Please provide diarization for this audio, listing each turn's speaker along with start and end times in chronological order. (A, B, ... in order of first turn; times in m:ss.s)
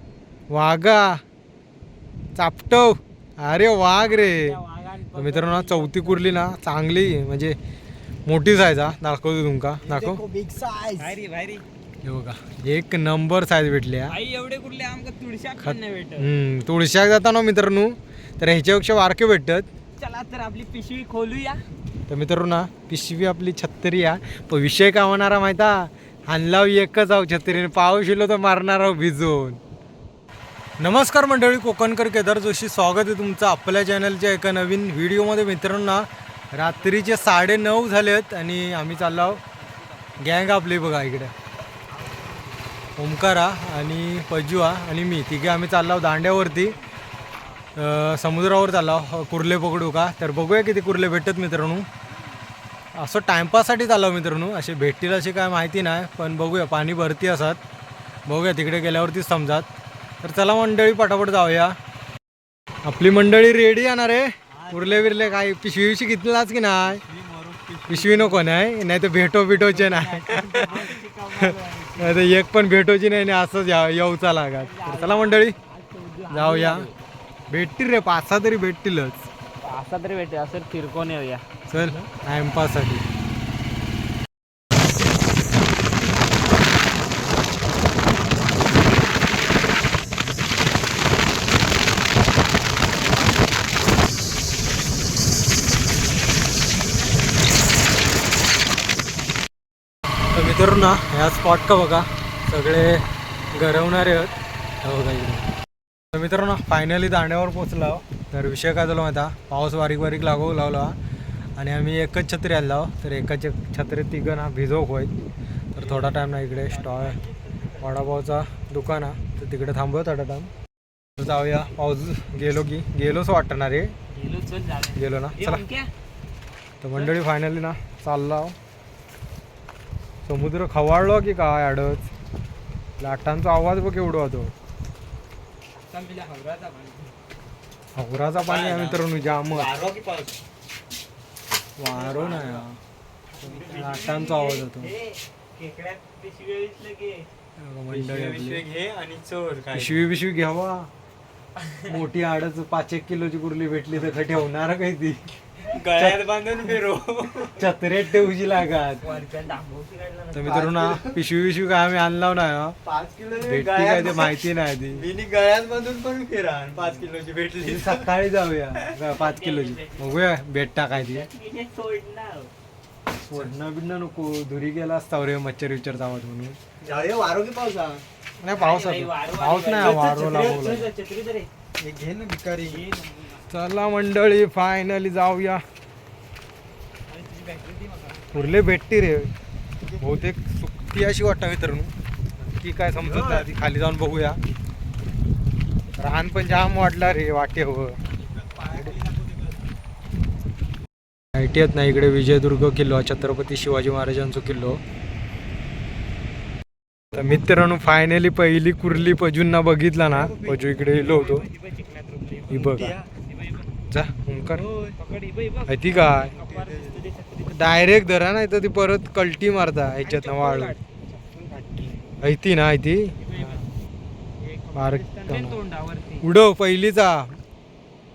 0:00.5-0:01.2 A
0:02.4-0:04.6 A
0:03.9-0:06.4 B
0:05.1-0:07.6 A
0:08.3-0:10.2 A
0:09.8-0:11.2 C
0:11.0-0:11.6 B
0:12.0-0:14.2 A
0:14.1-0:16.3 B
0:15.6-0:19.7 A
0:20.0-0:21.6 B
0:22.1-0:29.6 A
0:30.8-0:39.4 A
0:36.6-0:37.6 B
0:38.9-0:40.2 B
0:40.2-0:41.3 A
0:41.9-0:42.6 B
0:43.0-0:46.8 A
0:46.3-0:47.0 B
0:47.8-0:51.9 A
0:53.0-0:57.6 A
0:58.3-0:59.7 A
1:00.2-1:01.8 A
1:02.8-1:07.0 A
1:04.6-1:05.3 C
1:06.9-1:08.4 C
1:07.9-1:10.8 A
1:09.7-1:12.3 B
1:10.6-1:11.0 C
1:12.0-1:15.6 A
1:14.5-1:16.9 B
1:16.3-1:16.9 A
1:17.5-1:19.3 A
1:19.6-1:21.4 B
1:21.7-1:23.0 A
1:40.3-1:44.3 A
1:44.8-1:45.5 A
1:46.1-1:51.0 A
1:51.6-1:55.1 A
1:55.7-1:57.2 A
1:56.3-1:57.2 B
1:57.8-2:00.5 A
2:01.2-2:03.9 A
2:04.1-2:05.9 B
2:04.9-2:05.6 A
2:06.8-2:08.6 A
2:10.2-2:12.1 A
2:13.0-2:14.5 A
2:15.9-2:17.1 B
2:18.0-2:19.7 A
2:18.4-2:20.4 C
2:21.8-2:22.8 A
2:21.9-2:22.6 C
2:23.4-2:24.2 C
2:23.4-2:27.3 B
2:23.7-2:24.9 A
2:27.6-2:28.6 A
2:27.9-2:30.1 C
2:29.7-2:30.9 A
2:31.6-2:31.9 B
2:31.8-2:35.2 A
2:35.6-2:37.7 C
2:35.8-2:36.3 A
2:37.5-2:39.2 A
2:39.0-2:39.9 B
2:39.0-2:41.2 C
2:40.3-2:42.8 A
2:42.8-2:48.1 C
2:43.4-2:45.1 A
2:47.6-2:51.3 A
2:49.1-2:50.3 B
2:50.9-2:52.5 B
2:53.3-2:56.6 A
2:56.8-2:58.0 C
2:58.4-3:00.9 A
2:58.5-3:01.5 B
2:59.8-3:00.9 C
3:01.8-3:02.8 C
3:02.6-3:03.5 B
3:03.5-3:05.6 A
3:07.1-3:08.6 B
3:08.3-3:09.3 A
3:10.0-3:14.4 A
3:13.0-3:13.5 C
3:16.0-3:18.0 A
3:18.6-3:19.0 C
3:21.4-3:24.8 A
3:27.1-3:31.5 A
3:30.1-3:30.8 C
3:30.8-3:33.7 B
3:32.5-3:32.9 A
3:32.5-3:33.1 C
3:33.9-3:34.7 A
3:34.5-3:35.0 C
3:35.0-3:37.9 B
3:35.7-3:36.3 A
3:36.3-3:37.0 C
3:37.5-3:40.8 A
3:39.9-3:40.8 B
3:41.1-3:42.0 C
3:42.2-3:43.6 A
3:43.2-3:43.7 B
3:44.4-3:46.3 B
3:44.7-3:45.6 A
3:46.2-3:47.3 A